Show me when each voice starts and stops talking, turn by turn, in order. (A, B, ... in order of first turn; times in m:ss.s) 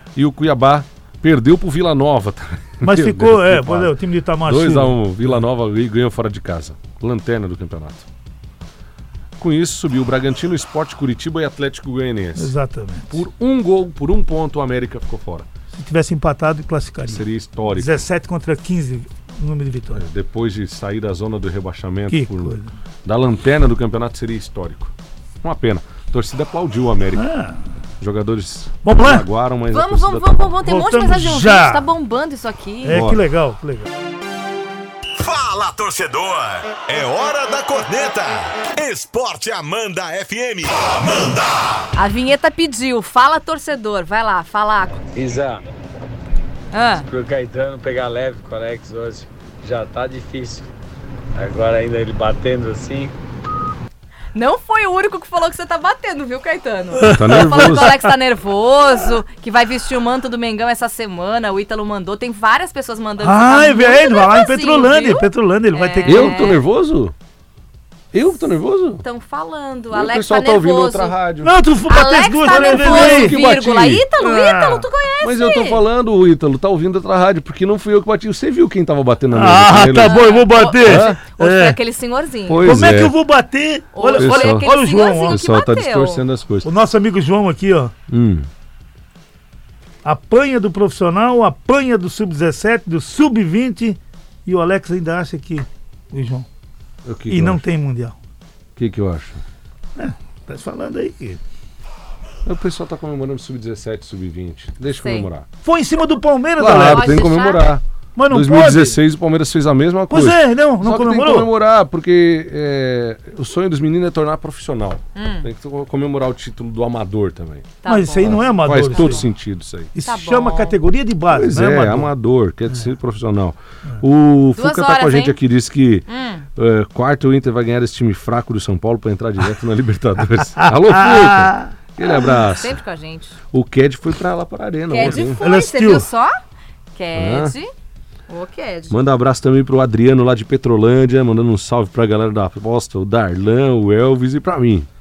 0:00.2-0:08.1 A
0:02.8-0:05.3 B
0:09.4-0:12.5 A
0:12.4-0:13.2 B
0:13.1-0:15.5 A
0:15.7-0:20.1 B
0:17.1-0:18.0 A
0:19.9-0:27.3 A
0:22.1-0:22.7 B
0:27.2-0:27.6 B
0:28.0-0:30.5 A
0:28.8-0:29.3 B
0:29.7-0:33.0 C
0:30.6-0:31.9 B
0:32.8-0:33.9 B
0:32.9-0:33.2 A
0:35.2-0:41.8 D
0:42.0-0:45.1 C
0:45.1-0:45.6 E
0:46.7-0:47.1 C
0:47.0-0:50.7 E
0:51.4-0:53.2 E
0:54.3-1:06.6 C
0:57.0-0:58.1 B
0:57.1-0:58.0 A
1:03.2-1:06.6 B
1:06.0-1:07.1 A
1:08.1-1:09.0 A
1:09.0-1:11.2 C
1:09.9-1:11.5 A
1:11.4-1:13.4 B
1:11.9-1:15.8 C
1:12.5-1:14.1 A
1:14.2-1:14.9 B
1:15.2-1:21.2 A
1:19.3-1:21.8 B
1:19.9-1:22.8 C
1:22.5-1:23.2 A
1:22.6-1:25.4 B
1:24.0-1:26.2 C
1:24.1-1:26.7 A
1:26.6-1:27.9 B
1:28.1-1:28.5 A
1:30.0-1:36.5 B
1:37.0-1:37.6 A
1:37.3-1:38.2 B
1:38.8-1:39.4 A
1:40.0-1:41.4 B
1:42.4-1:45.5 A
1:45.0-1:45.3 C
1:45.6-1:47.3 B
1:46.6-1:59.9 A
1:46.7-1:47.7 C
1:48.2-1:49.0 B
1:50.1-1:51.5 B
1:55.2-1:55.5 C
1:57.8-1:59.3 C
1:57.9-1:59.2 B
2:00.0-2:02.1 B
2:00.1-2:00.8 C
2:01.3-2:06.0 A
2:04.6-2:05.4 C
2:06.1-2:06.4 C
2:06.6-2:12.8 A
2:10.6-2:11.7 B
2:12.4-2:13.4 C
2:13.5-2:15.4 A
2:14.9-2:16.4 C
2:15.4-2:16.1 B
2:17.0-2:17.7 C
2:17.1-2:17.5 A
2:18.3-2:19.0 C
2:18.9-2:24.9 A